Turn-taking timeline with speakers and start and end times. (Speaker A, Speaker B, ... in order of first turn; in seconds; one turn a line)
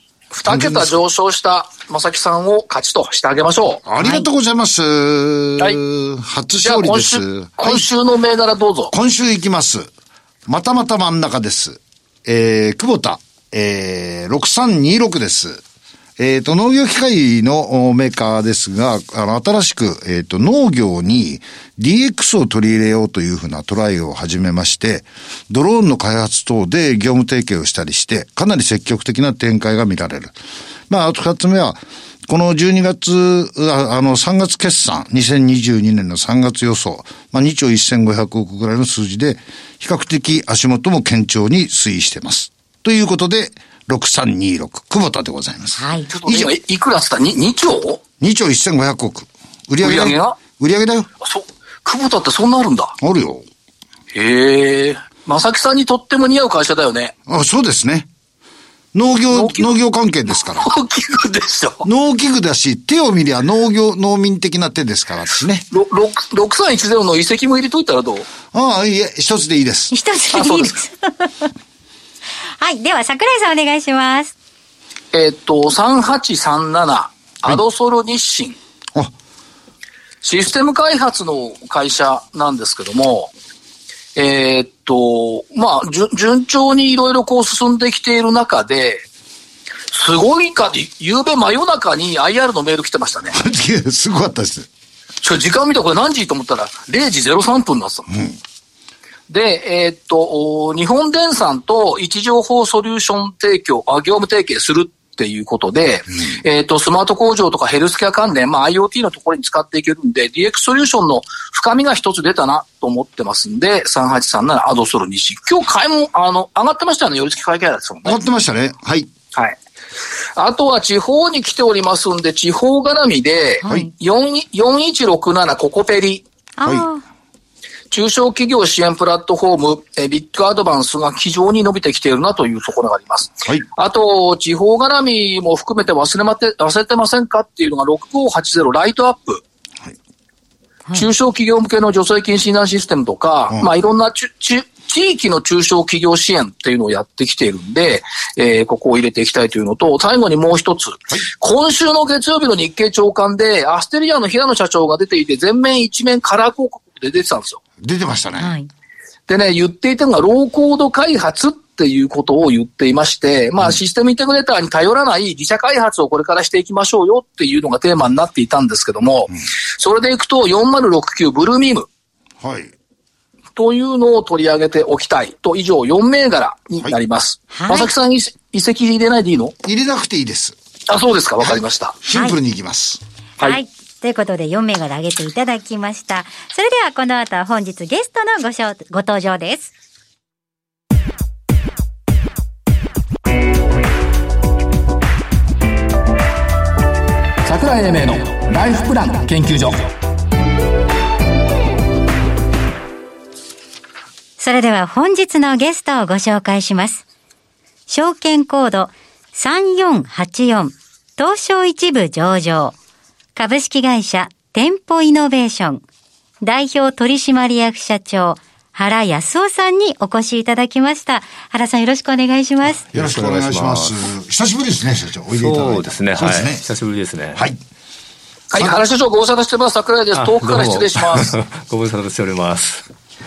Speaker A: 0.3-3.8
Speaker B: 0.4-0.9
Speaker B: 3.8-7.9
Speaker C: 4.0-4.3
Speaker A: 6.6-8.9
Speaker B: 8.9-9.9
Speaker B: 10.5-15.6
Speaker B: 16.2-30.3
Speaker B: 30.9-46.5
Speaker C: 45.8-46.1
Speaker A: 46.1-48.0
Speaker B: 48.2-51.1
Speaker A: 49.8-50.4
Speaker A: 51.2-52.9
Speaker B: 53.0-53.4
Speaker A: 54.1-57.1
Speaker B: 57.3-58.1
Speaker B: 58.9-60.7
Speaker A: 59.3-59.7
Speaker A: 60.5-61.9
Speaker B: 61.8-65.6
Speaker A: 65.7-68.3
Speaker B: 68.5-69.9
Speaker C: 69.9-71.5
Speaker A: 70.3-70.7
Speaker C: 72.6-74.3
Speaker A: 75.1-78.6
Speaker A: 80.2-83.3
Speaker A: 84.2-89.0
Speaker A: 89.9-93.3
Speaker B: 93.3-94.7
Speaker A: 95.2-98.1
Speaker B: 98.1-98.4
Speaker A: 99.3-118.2
Speaker B: 118.0-119.1
Speaker A: 120.3-126.2
Speaker C: 123.6-123.9
Speaker B: 123.6-123.9
Speaker C: 126.6-127.0
Speaker B: 126.6-126.9
Speaker A: 127.9-139.4
Speaker A: 140.9-157.6
Speaker B: 157.8-158.5
Speaker C: 158.4-158.7
Speaker A: 159.3-171.9
Speaker B: 172.4-172.7
Speaker A: 173.6-179.5
Speaker C: 177.5-177.9
Speaker B: 179.6-180.5
Speaker A: 180.9-182.0
Speaker B: 182.0-183.0
Speaker C: 183.4-189.7
Speaker D: 197.4-199.9
Speaker C: 204.4-207.0
Speaker C: 207.9-212.7
Speaker C: 213.3-215.8
Speaker C: 216.4-222.8
Speaker E: 222.9-223.9
Speaker B: 222.9-226.6
Speaker E: 225.4-227.4
Speaker A: 228.5-231.3
Speaker E: 230.1-232.8